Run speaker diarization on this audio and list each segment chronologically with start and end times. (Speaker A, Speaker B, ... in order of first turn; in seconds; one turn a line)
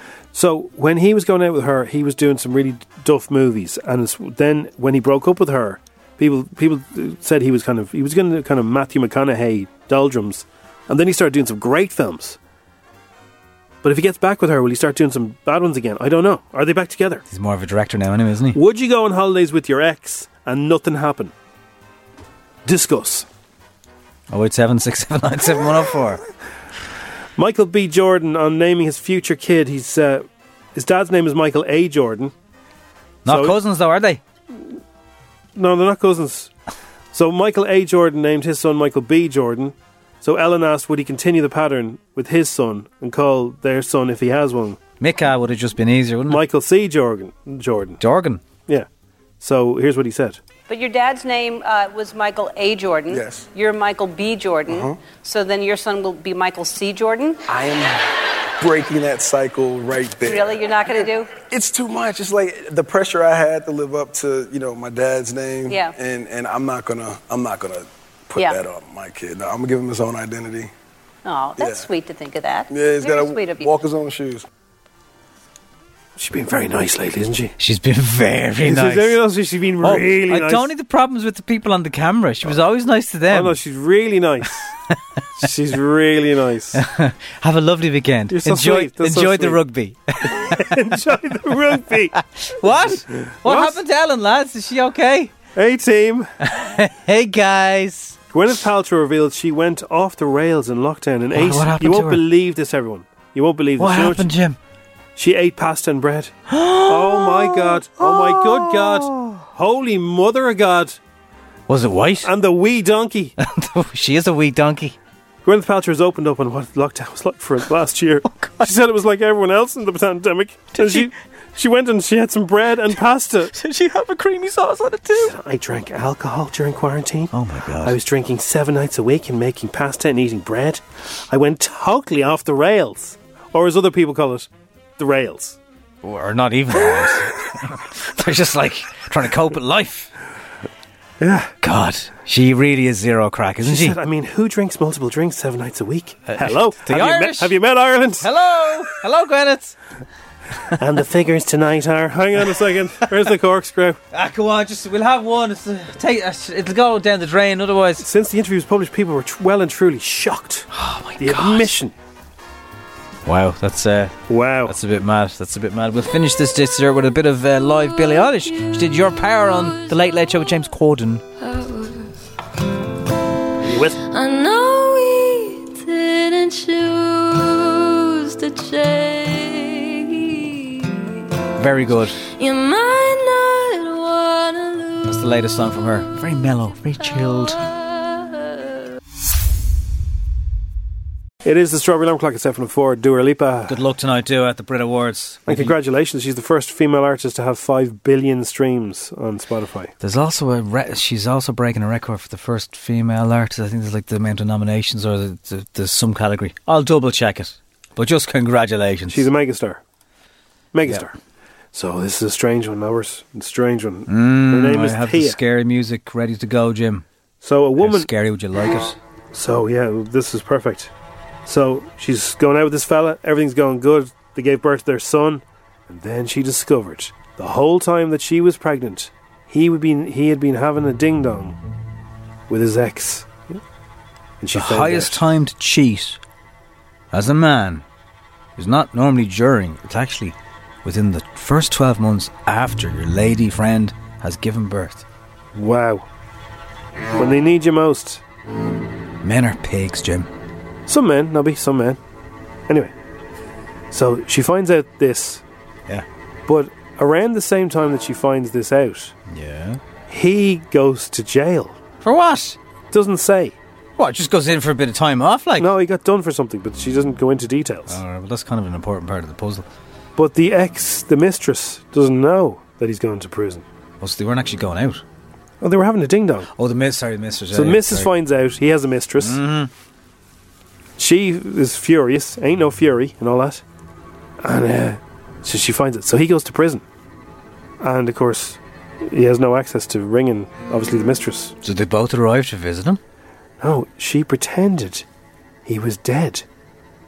Speaker A: 0.3-12.4
Speaker A: 13.8-17.2
Speaker B: 17.3-18.6
Speaker A: 18.5-21.3
Speaker A: 22.6-23.2
Speaker B: 24.3-26.2
Speaker A: 27.4-30.2
Speaker A: 30.8-32.3
Speaker B: 33.2-34.2
Speaker A: 33.2-33.6
Speaker A: 35.5-36.5
Speaker A: 37.1-44.8
Speaker B: 45.0-46.4
Speaker A: 46.3-48.0
Speaker B: 48.0-48.4
Speaker A: 49.4-50.4
Speaker C: 50.7-57.4
Speaker D: 53.1-53.5
Speaker D: 54.7-55.0
Speaker D: 57.5-58.0
Speaker D: 58.6-70.7
Speaker C: 60.2-61.3
Speaker C: 65.7-66.0
Speaker C: 71.2-73.7
Speaker D: 71.6-71.8
Speaker D: 72.7-74.4
Speaker A: 76.2-77.5
Speaker B: 77.6-79.2
Speaker A: 78.6-80.7
Speaker B: 79.8-83.5
Speaker A: 83.3-84.7
Speaker A: 85.4-86.8
Speaker B: 86.7-90.6
Speaker A: 88.3-89.6
Speaker A: 90.3-92.2
Speaker B: 92.2-95.3
Speaker A: 92.8-93.8
Speaker A: 95.5-96.3
Speaker B: 96.4-98.2
Speaker A: 98.3-104.3
Speaker B: 101.3-102.2
Speaker B: 103.8-104.6
Speaker A: 105.2-106.3
Speaker B: 106.5-109.4
Speaker A: 106.8-111.0
Speaker B: 111.7-112.3
Speaker A: 112.2-113.3
Speaker B: 113.4-115.0
Speaker A: 115.4-123.5
Speaker B: 118.3-118.7
Speaker B: 120.7-121.1
Speaker B: 123.5-125.3
Speaker A: 125.2-127.3
Speaker B: 127.3-128.0
Speaker A: 127.8-135.6
Speaker B: 136.0-140.1
Speaker A: 136.9-137.2
Speaker A: 141.2-141.5
Speaker B: 141.6-144.0
Speaker A: 143.6-148.3
Speaker B: 146.3-147.6
Speaker B: 148.2-149.8
Speaker A: 150.8-154.0
Speaker B: 154.1-158.0
Speaker A: 158.0-161.9
Speaker B: 160.7-161.7
Speaker B: 163.2-171.2
Speaker A: 164.3-164.7
Speaker E: 169.5-169.9
Speaker E: 171.4-172.1
Speaker A: 173.6-174.0
Speaker E: 174.0-181.2
Speaker B: 181.6-182.2
Speaker E: 182.4-185.2
Speaker B: 185.1-187.6
Speaker E: 187.0-188.8
Speaker A: 191.4-193.8
Speaker B: 193.7-195.7
Speaker A: 195.5-199.9
Speaker B: 200.0-209.2
Speaker A: 209.1-209.8
Speaker A: 210.7-211.1
Speaker A: 211.7-215.4
Speaker B: 214.1-217.0
Speaker A: 217.4-218.1
Speaker B: 217.8-219.0
Speaker A: 219.3-220.9
Speaker A: 221.4-231.6
Speaker A: 232.5-233.6
Speaker A: 234.4-235.2
Speaker B: 234.5-236.2
Speaker B: 237.1-237.8
Speaker B: 238.6-245.0
Speaker A: 245.5-246.0
Speaker A: 247.2-248.2
Speaker B: 249.2-250.3
Speaker A: 250.9-252.0
Speaker A: 253.9-255.4
Speaker A: 256.5-259.1
Speaker B: 259.3-259.8
Speaker A: 260.1-261.8
Speaker B: 262.0-262.6
Speaker A: 262.9-263.6
Speaker B: 264.0-265.7
Speaker A: 265.6-268.0
Speaker B: 267.9-269.6
Speaker A: 270.2-273.6
Speaker B: 274.0-275.0
Speaker A: 275.6-276.5
Speaker B: 276.6-278.1
Speaker A: 277.5-279.4
Speaker B: 279.2-279.7
Speaker A: 281.0-283.6
Speaker A: 284.4-286.8
Speaker A: 287.8-291.5
Speaker B: 291.6-293.0
Speaker A: 293.6-295.0
Speaker A: 295.6-296.4